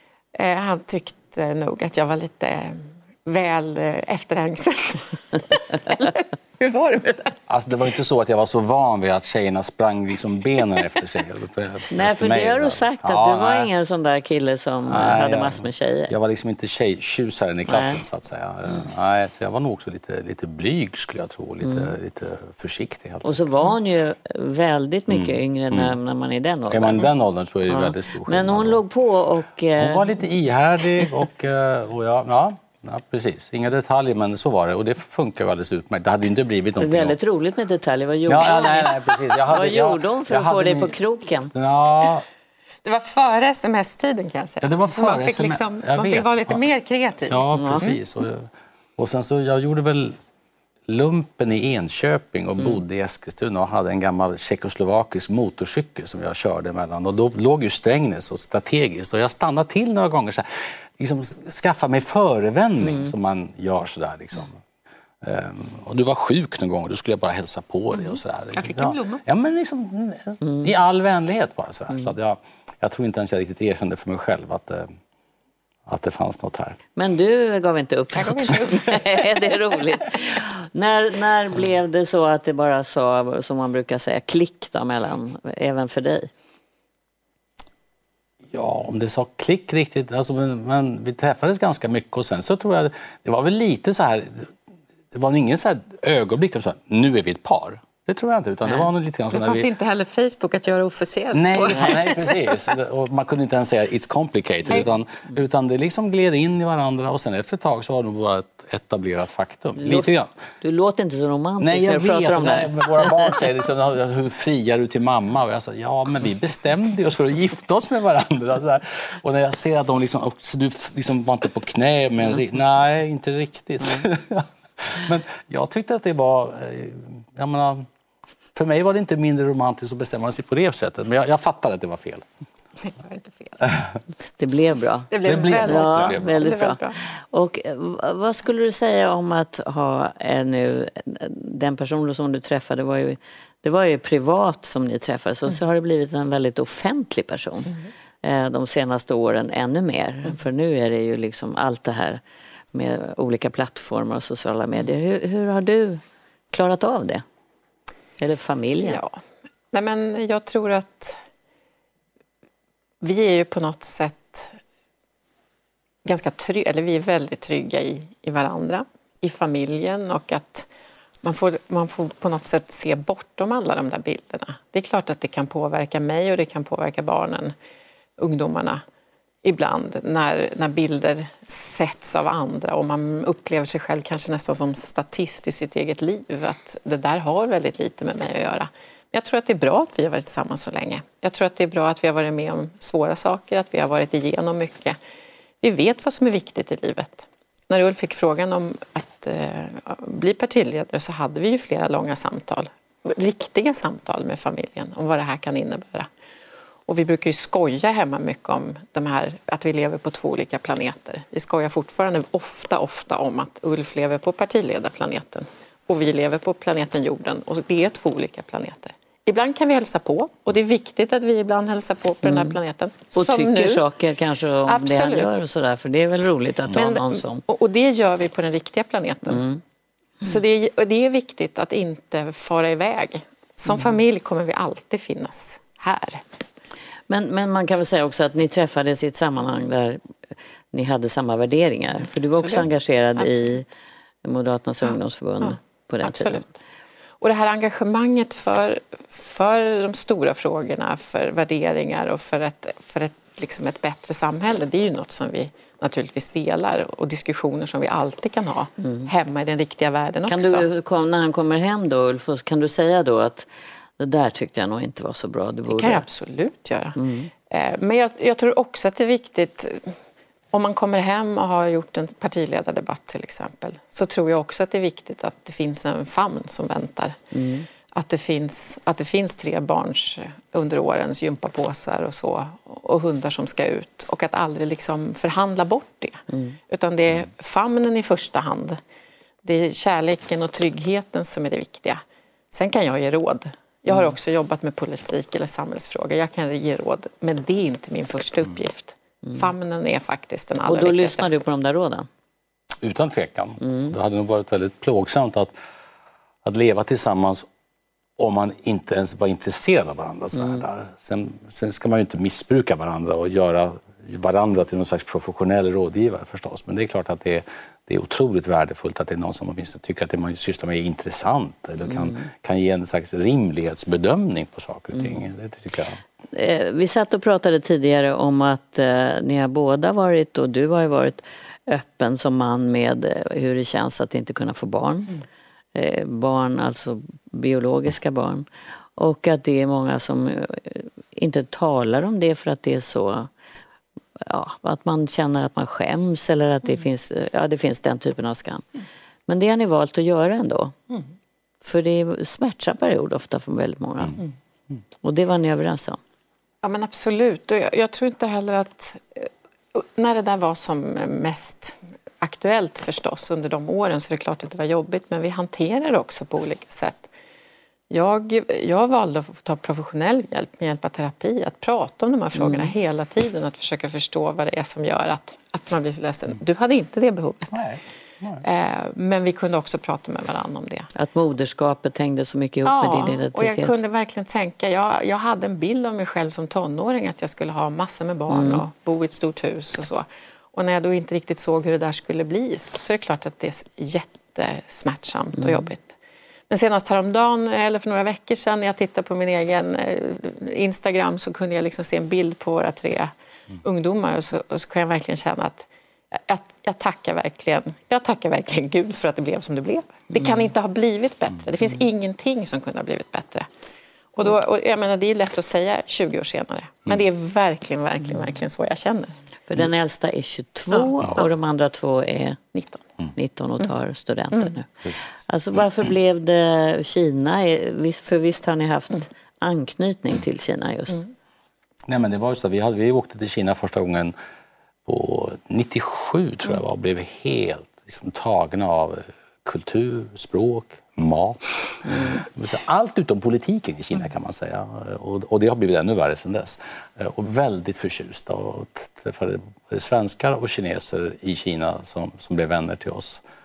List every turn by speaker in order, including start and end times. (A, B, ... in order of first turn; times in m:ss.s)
0:00.4-0:07.4 A
0:07.5-0:13.7 B
0:11.9-0:16.1 C
0:14.9-0:23.4 B
0:17.7-0:18.0 C
0:21.6-0:21.9 C
0:23.2-0:27.1 C
0:25.1-0:26.0 B
0:26.7-0:28.8 B
0:27.7-0:30.1 C
0:29.8-0:37.2 B
0:36.8-0:41.5 C
0:38.3-0:41.0 B
0:41.5-0:42.3 B
0:42.8-0:48.0 A
0:44.6-0:46.6 B
0:47.3-0:50.2 B
0:47.5-0:47.9 C
0:50.9-1:04.6 B
1:05.2-1:14.9 B
1:08.6-1:09.2 A
1:10.4-1:10.7 C
1:15.9-1:16.8 B
1:17.0-1:26.3 C
1:18.2-1:19.6 A
1:28.5-1:34.5 B
1:35.1-1:39.7 B
1:39.3-1:42.6 A
1:41.3-1:50.3 B
1:49.8-1:50.1 C
1:50.6-1:53.4 C
1:51.6-2:07.9 B
2:08.6-2:12.3 B
2:12.8-2:13.7 A
2:14.4-2:32.2 C
2:15.1-2:17.0 A
2:15.2-2:16.6 B
2:32.7-2:36.0 C
2:36.5-2:37.2 C
2:38.2-2:39.0 C
2:38.8-2:39.2 A
2:39.7-2:41.2 A
2:43.0-2:44.6 A
2:46.0-2:50.7 A
2:51.2-2:57.6 A
2:58.2-2:58.8 A
2:59.4-3:15.0 A
3:15.6-3:26.1 A
3:26.9-3:43.9 A
3:42.2-3:42.6 C
3:43.1-3:47.4 C
3:44.7-3:45.4 A
3:46.7-3:49.5 A
3:49.3-3:49.6 C
3:50.2-3:56.2 A
3:57.1-4:00.0 C
4:00.7-4:03.7 C
4:02.3-4:03.6 A
4:04.2-4:06.5 C
4:05.4-4:06.5 A
4:07.2-4:20.7 A
4:18.8-4:19.1 C
4:20.3-4:23.5 C
4:24.0-4:26.0 C
4:25.7-4:27.0 A
4:27.0-4:27.3 C
4:27.5-4:30.0 A
4:30.5-4:37.2 A
4:37.3-4:37.7 C
4:37.9-4:48.8 A
4:46.3-4:46.6 C
4:49.4-5:01.3 A
5:00.7-5:02.1 C
5:02.8-5:05.5 B
5:03.6-5:03.9 C
5:06.4-5:07.5 B
5:08.2-5:26.0 B
5:21.9-5:22.3 C
5:26.3-5:35.2 C
5:35.8-5:38.5 C
5:39.0-5:43.3 C
5:44.2-5:48.6 C
5:49.3-5:50.8 C
5:51.6-5:54.2 C
5:55.0-5:56.0 C
5:56.6-6:07.1 A
6:07.9-6:17.6 A
6:12.4-6:12.7 C
6:17.5-6:18.4 B
6:18.4-6:20.9 A
6:21.0-6:23.7 C
6:22.6-6:36.0 A
6:28.3-6:28.6 C
6:35.4-6:35.7 C
6:36.5-6:43.1 A
6:43.6-6:53.5 A
6:54.2-6:59.2 A
6:59.5-7:02.4 C
7:00.8-7:01.0 A
7:02.5-7:02.8 A
7:03.2-7:04.7 C
7:05.2-7:11.0 C
7:11.9-7:14.2 B
7:14.9-7:33.2 B